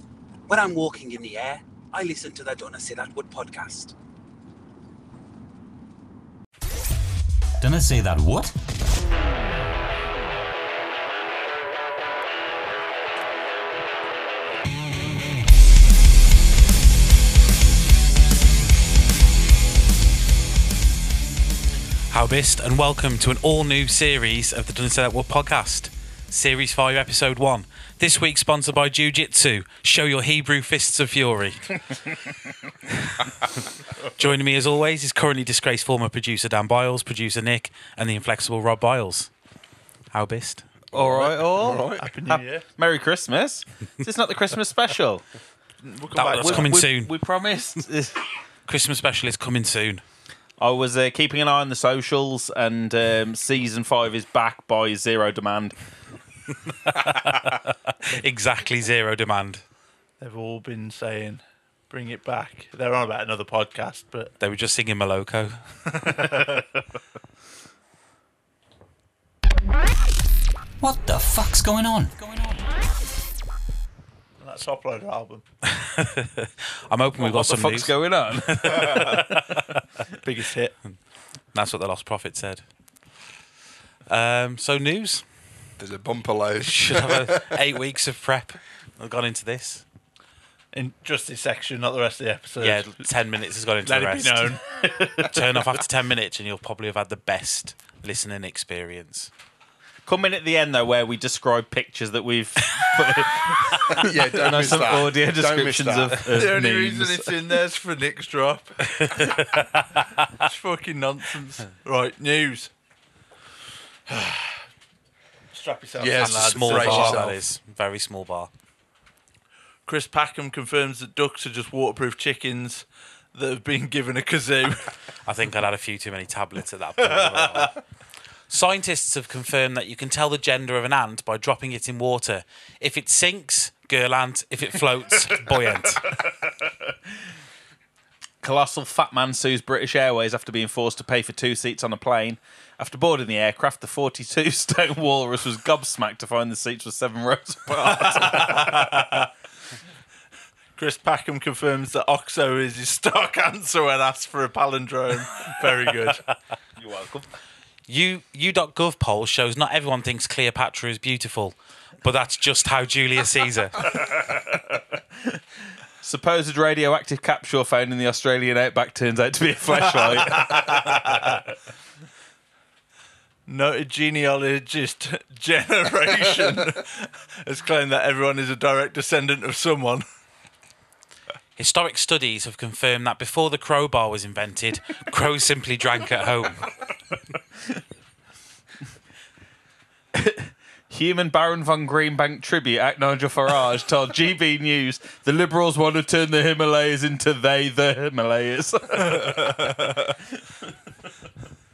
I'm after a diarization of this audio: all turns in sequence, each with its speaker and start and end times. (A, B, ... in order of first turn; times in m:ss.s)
0:00.5-0:03.9 A
0:07.6-0:08.5 B
0:22.1-0:31.7 C
0:32.9-0:33.4 C
0:34.2-0:39.3 C
0:40.1-0:40.6 C
0:40.9-0:42.1 D
0:40.9-0:45.2 E
0:42.0-0:42.6 F
0:45.8-0:46.8 F
0:46.1-0:47.1 C
0:46.2-0:48.2 E
0:48.7-0:50.0 C
0:50.6-0:55.7 E
0:57.0-0:57.3 C
0:58.0-0:59.6 C
1:00.2-1:04.3 F
1:04.4-1:06.4 C
1:05.9-1:06.6 F
1:10.8-1:12.7 B
1:14.4-1:15.4 F
1:15.7-1:19.8 C
1:17.2-1:19.1 E
1:18.7-1:19.4 F
1:20.2-1:20.8 F
1:21.5-1:22.6 C
1:24.1-1:25.2 C
1:25.8-1:27.5 D
1:26.6-1:29.8 C
1:30.7-1:33.0 F
1:32.6-1:34.6 C
1:33.8-1:34.7 F
1:34.8-1:35.5 E
1:35.2-1:39.3 C
1:40.0-1:47.4 E
1:43.7-1:44.0 C
1:43.9-1:46.3 D
1:46.3-1:52.7 F
1:49.0-1:49.5 C
1:54.1-1:54.6 F
1:55.5-1:57.3 F
1:56.0-1:57.4 D
1:56.1-1:58.5 C
1:59.8-2:04.9 F
2:05.2-2:07.7 C
2:07.0-2:07.7 F
2:08.5-2:16.1 C
2:18.4-2:29.2 E
2:27.7-2:29.3 F
2:30.8-2:36.2 F
2:36.8-2:37.2 E
2:37.9-2:43.9 C
2:43.9-2:45.4 E
2:46.0-2:51.3 E
2:49.9-2:51.4 F
2:53.5-3:00.0 F
3:01.6-3:06.7 C
3:10.1-3:20.2 E